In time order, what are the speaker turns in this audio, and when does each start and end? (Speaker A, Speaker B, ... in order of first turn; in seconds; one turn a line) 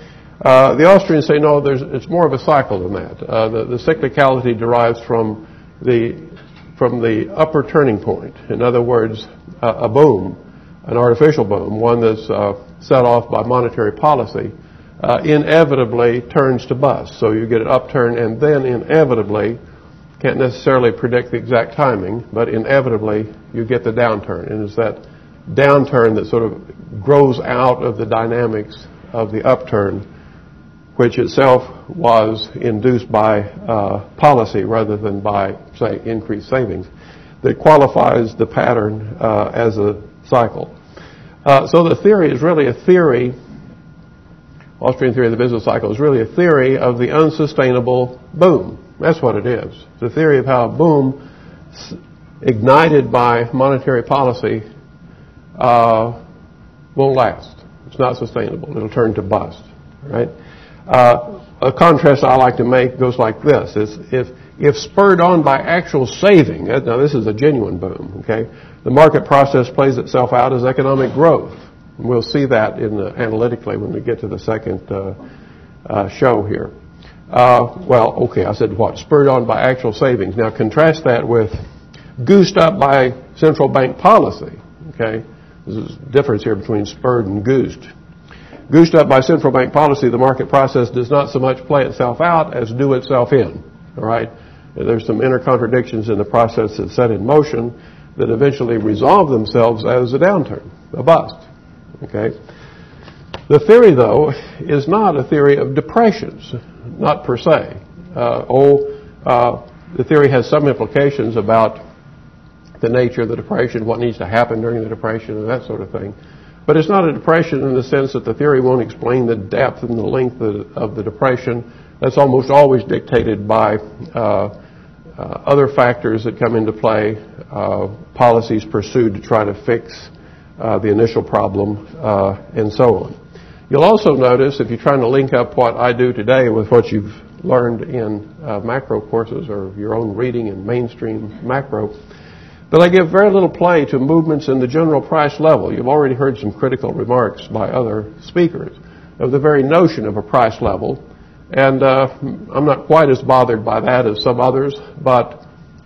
Speaker A: 0.4-19.6
Speaker A: 20.2-30.0
Speaker A: 30.9-36.9
Speaker A: 37.4-40.7
Speaker A: 41.4-43.3
Speaker A: 44.8-51.2
Speaker A: 51.7-54.6
Speaker A: 55.6-56.2
Speaker A: 56.9-60.3
Speaker A: 60.9-75.2
Speaker A: 75.8-76.7
Speaker A: 77.3-81.6
Speaker A: 82.2-87.9
Speaker A: 88.7-101.4
Speaker A: 102.0-102.3
Speaker A: 103.5-111.8
Speaker A: 112.8-116.1
Speaker A: 116.7-124.5
Speaker A: 125.2-133.2
Speaker A: 133.7-141.9
Speaker A: 142.7-155.4